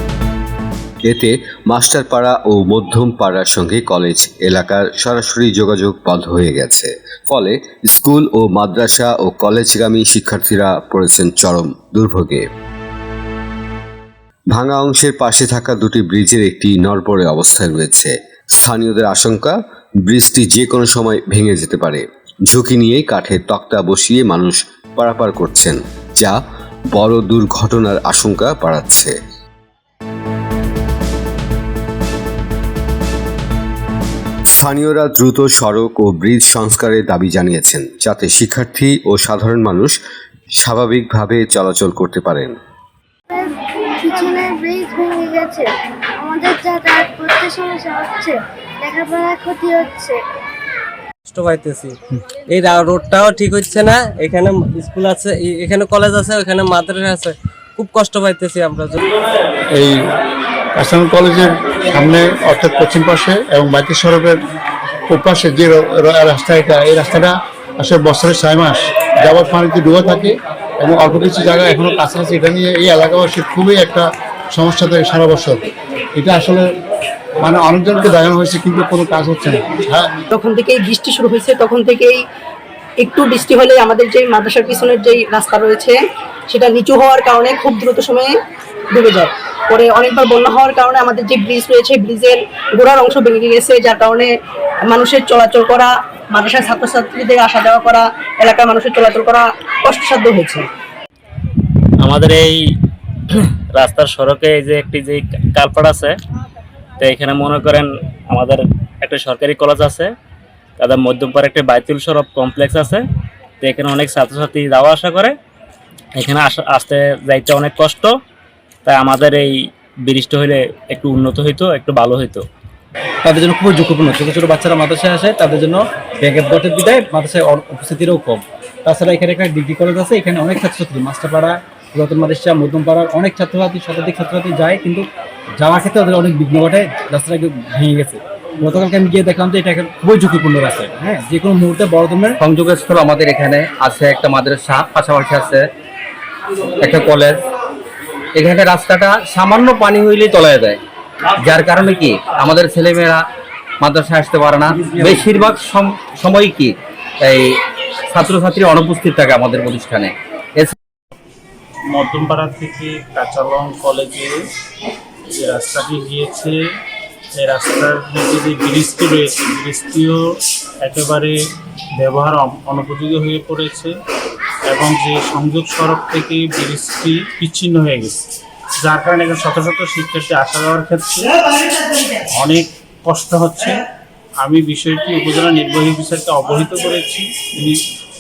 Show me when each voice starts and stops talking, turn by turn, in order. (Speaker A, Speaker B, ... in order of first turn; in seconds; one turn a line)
Speaker A: 1.1-12.5
Speaker A: 14.5-26.4
Speaker A: 26.9-29.1
Speaker A: 34.5-40.0
Speaker A: 40.6-42.6
Speaker B: 43.3-50.2
Speaker C: 51.2-59.0
Speaker D: 59.7-60.0
Speaker D: 60.8-64.4
Speaker D: 65.1-75.6
Speaker D: 76.2-76.6
Speaker D: 77.4-80.2
Speaker E: 80.3-82.2
Speaker E: 83.0-88.3
Speaker E: 88.9-94.3
Speaker E: 94.9-100.7
Speaker F: 102.0-102.6
Speaker F: 103.3-106.2
Speaker F: 107.0-110.1
Speaker F: 110.8-113.0
Speaker F: 113.6-115.3
Speaker F: 116.2-118.1
Speaker F: 118.9-119.5
Speaker F: 120.1-122.4
Speaker G: 123.2-135.1
Speaker G: 135.6-142.3
Speaker H: 142.4-145.7
Speaker H: 146.8-147.4
Speaker H: 148.4-150.8
Speaker H: 151.4-153.2
Speaker H: 153.8-157.6
Speaker H: 158.1-160.7
Speaker I: 161.9-164.4
Speaker I: 165.3-166.6
Speaker I: 167.4-171.3
Speaker I: 172.0-173.9
Speaker I: 174.7-178.2
Speaker I: 178.8-181.3
Speaker I: 182.3-183.8
Speaker I: 184.4-187.8